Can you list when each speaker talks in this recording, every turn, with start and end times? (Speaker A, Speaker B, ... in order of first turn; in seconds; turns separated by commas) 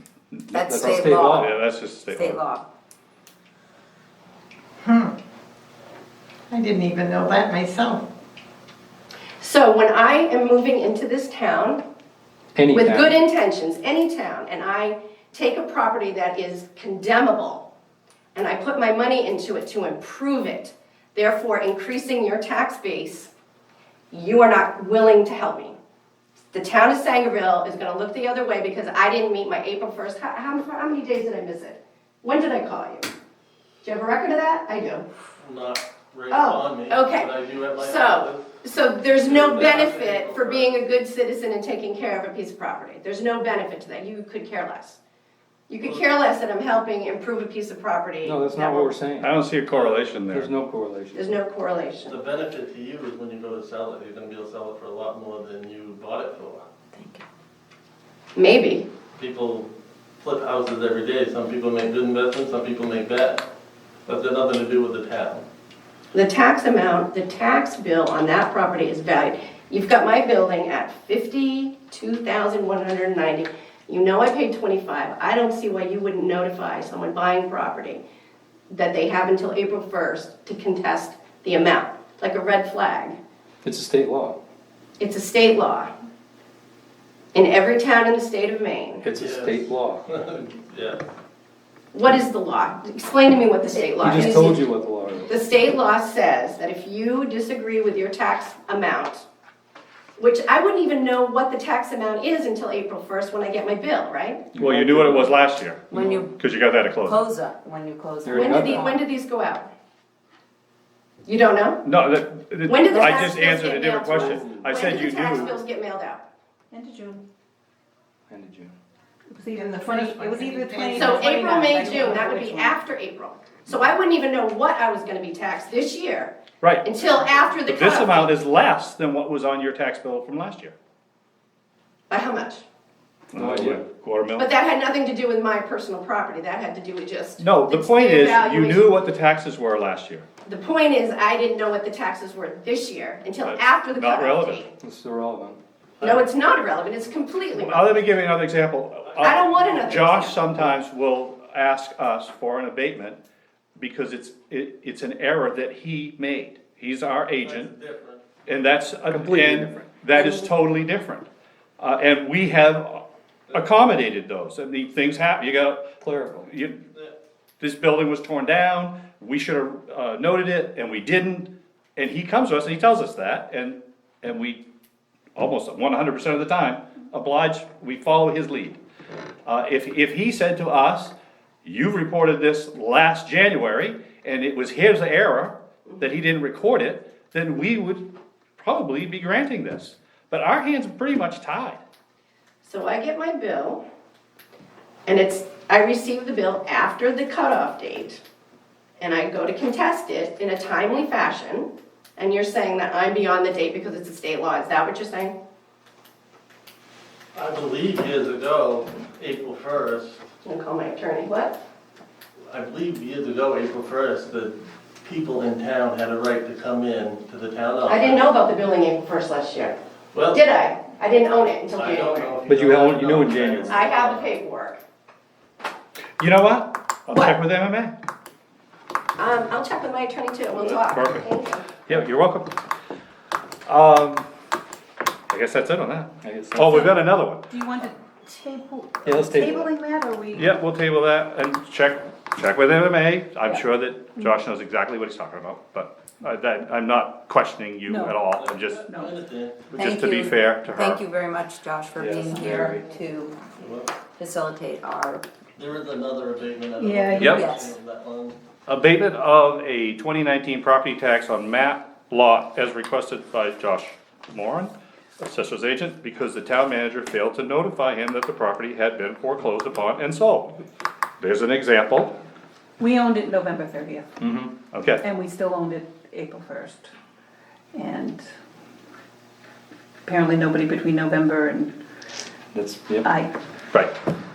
Speaker A: 0.5-2.5, Speaker B: 0.5-1.4, Speaker C: 0.7-1.6, Speaker B: 2.2-2.6, Speaker D: 4.8-5.2, Speaker D: 6.5-8.1, Speaker E: 9.4-11.8, Speaker C: 12.6-13.2, Speaker E: 12.7-17.7, Speaker E: 18.4-23.3, Speaker E: 24.1-25.8, Speaker E: 26.5-33.1, Speaker E: 33.8-35.1, Speaker F: 35.4-38.4, Speaker E: 36.3-45.0, Speaker F: 39.2-40.8, Speaker E: 45.7-49.0, Speaker C: 48.2-49.4, Speaker A: 49.2-50.5, Speaker F: 49.7-50.1, Speaker C: 50.3-51.4, Speaker E: 51.1-52.2, Speaker F: 52.1-56.6, Speaker B: 57.0-57.2, Speaker E: 58.4-58.9, Speaker F: 59.1-59.7, Speaker F: 60.2-63.4, Speaker F: 64.1-65.5, Speaker E: 66.1-78.0, Speaker E: 78.7-83.2, Speaker C: 83.6-84.4, Speaker E: 85.0-85.9, Speaker E: 87.3-89.0, Speaker C: 89.0-90.0, Speaker F: 89.2-91.0, Speaker E: 91.9-94.7, Speaker C: 94.0-95.3, Speaker E: 95.3-99.2, Speaker E: 100.2-104.4, Speaker A: 104.6-107.2, Speaker C: 104.6-105.4, Speaker B: 105.9-106.2, Speaker C: 106.0-106.2, Speaker B: 107.1-108.8, Speaker C: 108.2-108.9, Speaker E: 108.3-109.7, Speaker E: 111.2-111.8, Speaker A: 111.8-115.5, Speaker E: 112.7-116.2, Speaker G: 116.7-117.2, Speaker C: 118.3-118.7, Speaker G: 119.3-122.8, Speaker D: 119.5-122.1, Speaker E: 121.0-128.3, Speaker A: 126.6-126.9, Speaker A: 127.7-130.7, Speaker E: 132.1-132.6, Speaker A: 133.3-134.5, Speaker C: 133.3-133.8, Speaker E: 134.4-138.9, Speaker A: 137.4-140.3, Speaker E: 140.4-144.7, Speaker A: 143.4-144.7, Speaker C: 144.8-145.6, Speaker E: 146.0-148.1, Speaker A: 147.5-153.2, Speaker E: 149.2-150.7, Speaker A: 153.8-157.7, Speaker F: 157.4-158.2, Speaker A: 158.5-161.3, Speaker C: 159.1-159.9, Speaker A: 161.8-165.9, Speaker C: 166.0-166.5, Speaker A: 166.4-166.8, Speaker A: 167.6-174.6, Speaker A: 175.4-178.8, Speaker A: 179.4-181.1, Speaker A: 181.6-188.1, Speaker A: 188.6-191.8, Speaker E: 192.6-193.8, Speaker E: 195.1-198.2, Speaker E: 199.0-205.3, Speaker F: 207.3-210.2, Speaker E: 210.4-211.6, Speaker F: 212.5-218.2, Speaker E: 217.9-219.8, Speaker F: 220.1-220.4, Speaker E: 220.3-222.3, Speaker F: 221.8-224.3, Speaker C: 222.5-223.8, Speaker E: 223.7-224.8, Speaker A: 226.2-227.9, Speaker E: 227.1-227.4, Speaker E: 229.2-231.7, Speaker A: 230.6-231.3, Speaker A: 231.9-232.6, Speaker A: 233.7-234.3, Speaker A: 235.3-237.4, Speaker C: 236.2-236.9, Speaker G: 237.5-240.5, Speaker C: 239.1-239.7, Speaker A: 240.3-248.9, Speaker G: 247.9-248.3, Speaker F: 248.4-249.7, Speaker G: 248.9-249.2, Speaker A: 249.7-251.0, Speaker B: 249.8-253.4, Speaker C: 252.0-252.8, Speaker G: 252.2-252.8, Speaker F: 253.6-253.9, Speaker B: 254.2-255.2, Speaker F: 255.6-258.4, Speaker G: 256.8-257.4, Speaker A: 257.2-257.5, Speaker B: 257.3-257.7, Speaker A: 258.7-270.6, Speaker A: 271.2-272.1, Speaker G: 272.8-274.1, Speaker C: 274.2-274.5, Speaker A: 274.7-275.0, Speaker G: 275.0-276.9, Speaker G: 277.7-278.2, Speaker G: 280.1-281.8, Speaker C: 282.5-283.1, Speaker G: 283.0-283.3